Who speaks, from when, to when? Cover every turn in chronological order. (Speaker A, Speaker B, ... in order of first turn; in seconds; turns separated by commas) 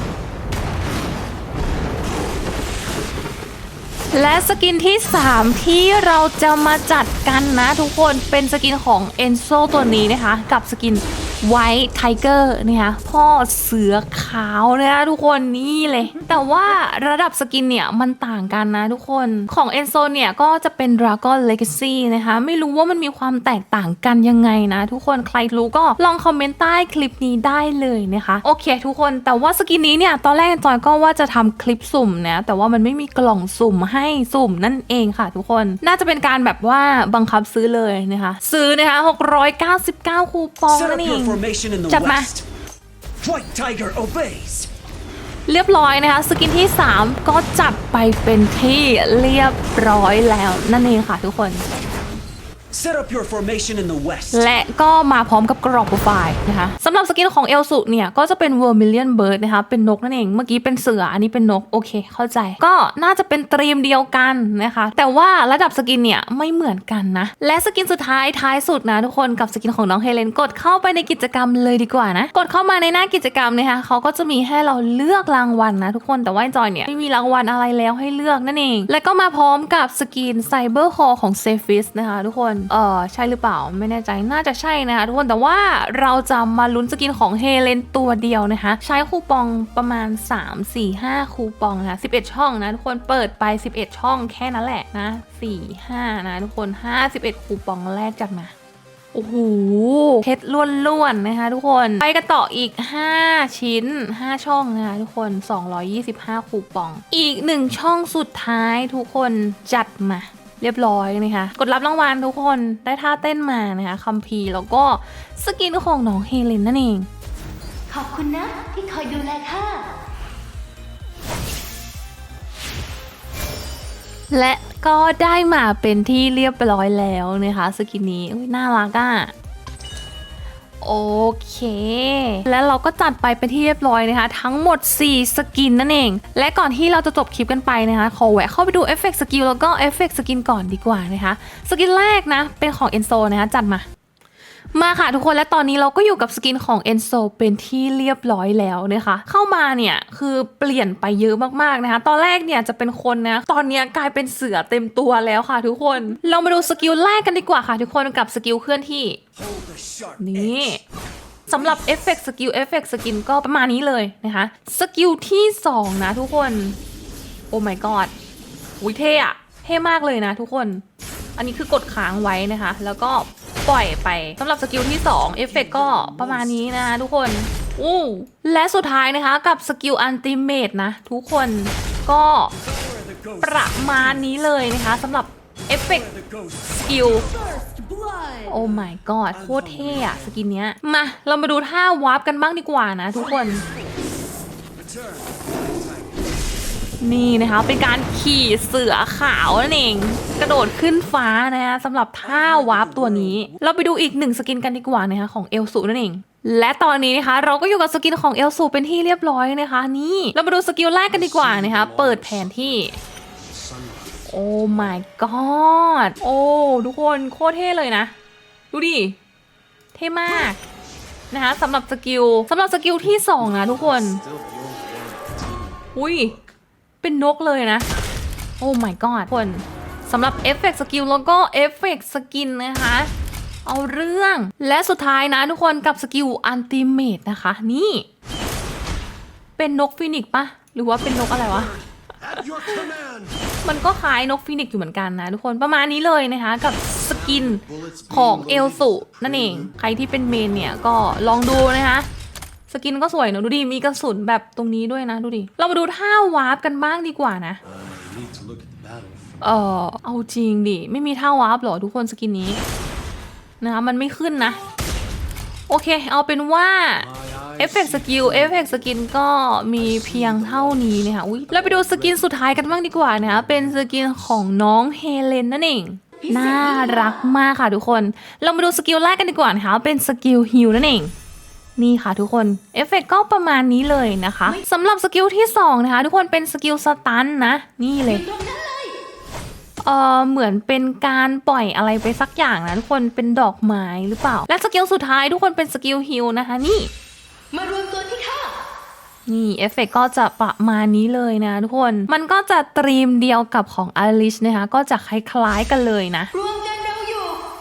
Speaker A: 4.1-42.3, Speaker B: 40.7-42.5, Speaker B: 43.2-44.7, Speaker A: 45.5-51.6, Speaker B: 52.7-54.5, Speaker A: 54.3-98.5, Speaker A: 99.1-117.1, Speaker C: 117.9-119.9, Speaker A: 124.3-129.3, Speaker A: 130.8-143.8, Speaker A: 144.7-159.2, Speaker B: 159.3-160.8, Speaker A: 160.2-160.8, Speaker A: 161.5-166.8, Speaker A: 167.5-168.1, Speaker A: 168.8-170.8, Speaker A: 171.4-182.5, Speaker B: 175.6-176.6, Speaker B: 182.6-183.9, Speaker A: 183.4-186.1, Speaker B: 185.8-188.4, Speaker A: 186.8-187.3, Speaker A: 188.4-193.6, Speaker B: 189.3-190.3, Speaker B: 194.8-196.2, Speaker A: 197.0-213.0, Speaker B: 202.2-203.4, Speaker D: 211.1-212.9, Speaker D: 213.4-214.9, Speaker A: 214.3-218.1, Speaker A: 218.7-219.2, Speaker A: 219.9-220.6, Speaker A: 221.3-224.2, Speaker D: 223.2-226.5, Speaker A: 225.9-226.3, Speaker A: 227.0-227.9, Speaker A: 228.6-233.1, Speaker A: 233.6-238.1, Speaker A: 239.6-241.7, Speaker D: 241.1-243.4, Speaker A: 243.6-252.1, Speaker D: 247.0-249.7, Speaker A: 252.7-257.6, Speaker D: 257.6-259.3, Speaker A: 259.4-262.6, Speaker A: 263.6-264.6, Speaker A: 265.7-281.1, Speaker D: 267.0-269.0, Speaker D: 269.8-274.4, Speaker A: 281.8-288.3, Speaker C: 288.2-288.9, Speaker A: 289.8-296.9, Speaker C: 297.5-298.6, Speaker A: 299.2-306.3, Speaker C: 306.4-307.4